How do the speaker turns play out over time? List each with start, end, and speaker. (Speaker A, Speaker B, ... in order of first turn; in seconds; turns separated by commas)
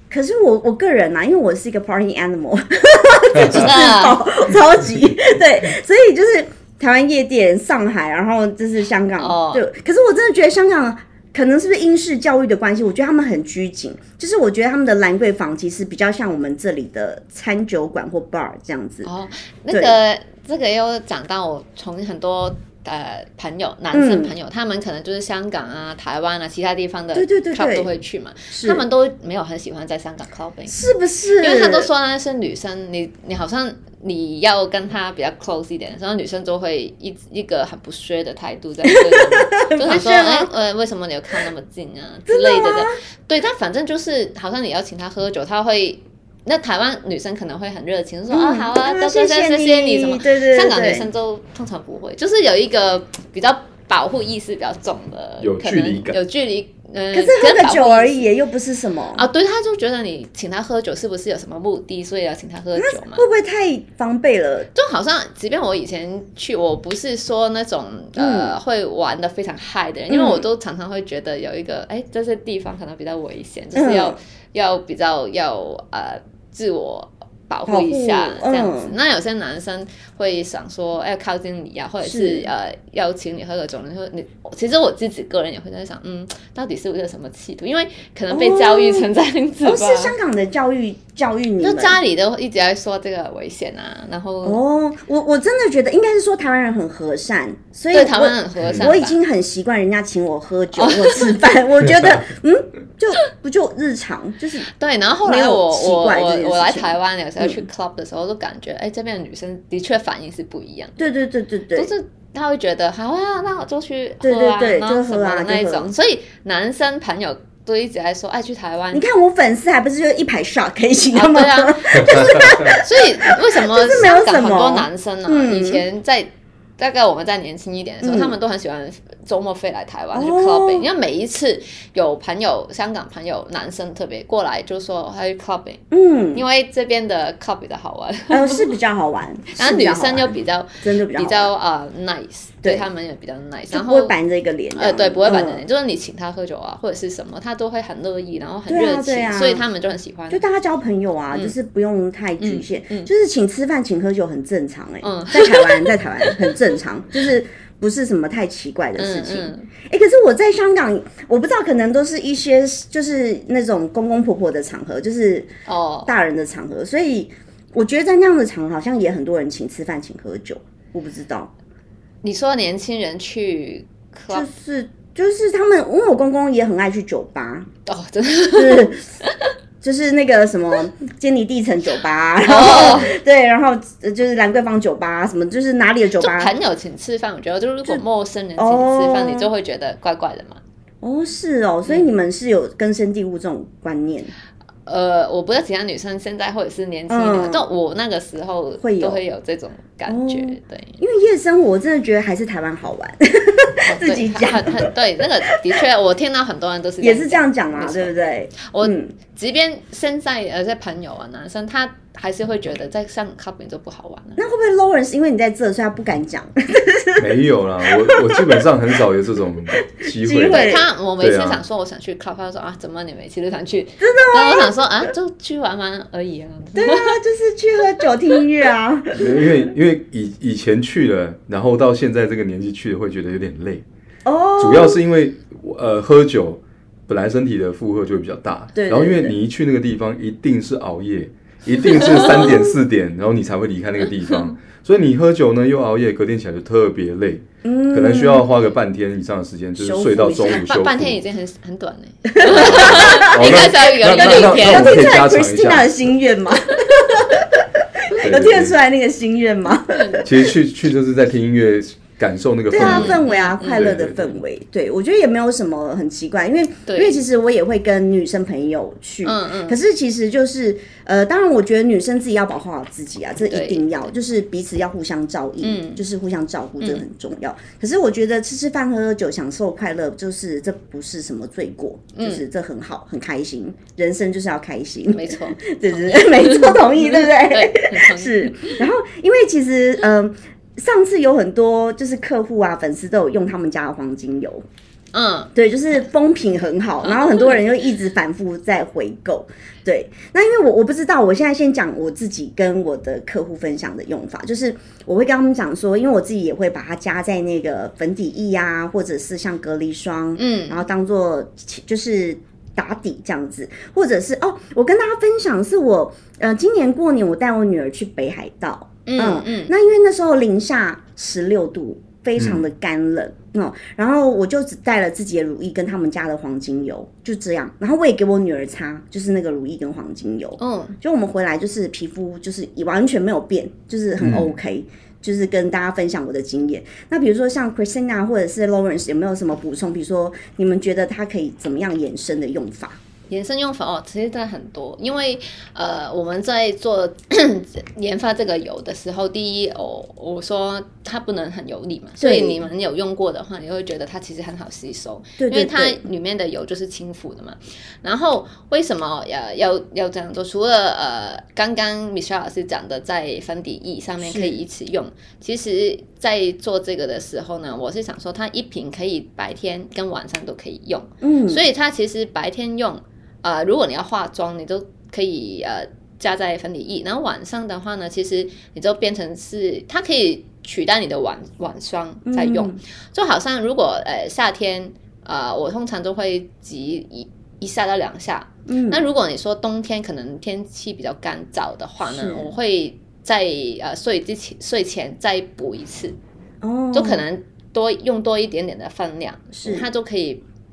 Speaker A: 0.1-19.1, Speaker B: 3.3-3.7, Speaker C: 3.5-4.2, Speaker C: 9.2-9.6, Speaker C: 19.1-30.9, Speaker A: 23.9-24.3, Speaker A: 27.1-27.9, Speaker A: 28.5-28.9, Speaker A: 30.7-31.9, Speaker C: 31.4-58.3, Speaker A: 38.9-40.5, Speaker A: 42.3-42.9, Speaker A: 48.3-51.1, Speaker B: 55.4-56.2, Speaker A: 57.1-59.2, Speaker C: 59.1-63.3, Speaker A: 62.8-64.7, Speaker C: 64.7-90.1, Speaker A: 68.2-68.5, Speaker A: 70.1-70.4, Speaker A: 73.8-74.2, Speaker A: 77.7-78.9, Speaker A: 82.0-82.5, Speaker A: 88.3-89.1, Speaker A: 89.6-92.0, Speaker C: 91.6-94.6, Speaker A: 94.4-104.7, Speaker C: 97.9-99.2, Speaker B: 98.6-98.9, Speaker C: 100.8-101.4, Speaker C: 104.7-111.1, Speaker A: 105.2-107.6, Speaker A: 111.0-111.9, Speaker C: 111.7-119.0, Speaker A: 114.2-115.9, Speaker A: 118.9-125.8, Speaker C: 121.1-135.8, Speaker A: 128.0-128.4, Speaker A: 130.1-130.9, Speaker A: 135.9-136.4, Speaker C: 136.3-138.7, Speaker A: 138.3-141.5, Speaker C: 139.6-144.1, Speaker A: 143.7-145.6, Speaker C: 144.8-150.4, Speaker A: 148.7-149.6, Speaker A: 150.3-165.5, Speaker C: 152.4-153.1, Speaker C: 155.0-156.5, Speaker C: 159.0-159.7, Speaker C: 165.7-166.1, Speaker A: 166.1-171.5, Speaker C: 172.2-174.5, Speaker A: 174.3-177.7, Speaker C: 177.9-179.5, Speaker A: 178.5-179.1, Speaker A: 179.8-186.5, Speaker C: 182.4-183.2, Speaker C: 186.2-190.6, Speaker A: 188.6-189.5, Speaker A: 191.0-194.3, Speaker C: 194.9-201.0, Speaker A: 197.1-197.7, Speaker A: 198.8-199.2, Speaker A: 200.1-204.9, Speaker C: 203.8-214.4, Speaker A: 207.0-209.1, Speaker A: 214.4-217.3, Speaker B: 217.2-221.6, Speaker A: 217.8-218.6, Speaker A: 219.9-220.9, Speaker C: 220.4-227.2, Speaker A: 224.0-225.1, Speaker A: 226.8-229.5, Speaker B: 229.1-233.8, Speaker A: 234.2-235.0, Speaker B: 234.6-251.2, Speaker A: 238.7-239.3, Speaker A: 241.9-242.8, Speaker A: 247.6-248.5, Speaker A: 249.8-250.7, Speaker C: 250.4-255.1, Speaker A: 252.3-260.3, Speaker B: 252.4-255.9, Speaker B: 258.2-258.8, Speaker C: 259.9-260.2, Speaker B: 260.2-264.4, Speaker A: 262.7-294.6, Speaker C: 262.8-264.0, Speaker C: 266.9-267.2, Speaker C: 269.2-269.8, Speaker C: 273.4-273.9, Speaker C: 275.6-276.0, Speaker C: 282.1-282.4, Speaker C: 285.1-288.8, Speaker C: 295.1-295.5, Speaker A: 295.6-343.0, Speaker C: 297.0-297.6, Speaker C: 310.4-310.8, Speaker C: 319.1-319.7, Speaker B: 322.4-322.6, Speaker C: 330.6-330.9, Speaker B: 334.2-334.5, Speaker C: 343.3-396.1, Speaker A: 352.2-352.7, Speaker A: 355.4-356.1, Speaker A: 364.2-364.6, Speaker A: 371.2-371.6, Speaker A: 382.3-382.8, Speaker A: 388.7-389.0, Speaker A: 392.1-392.5, Speaker A: 396.6-397.2, Speaker C: 396.9-400.4, Speaker A: 399.5-399.9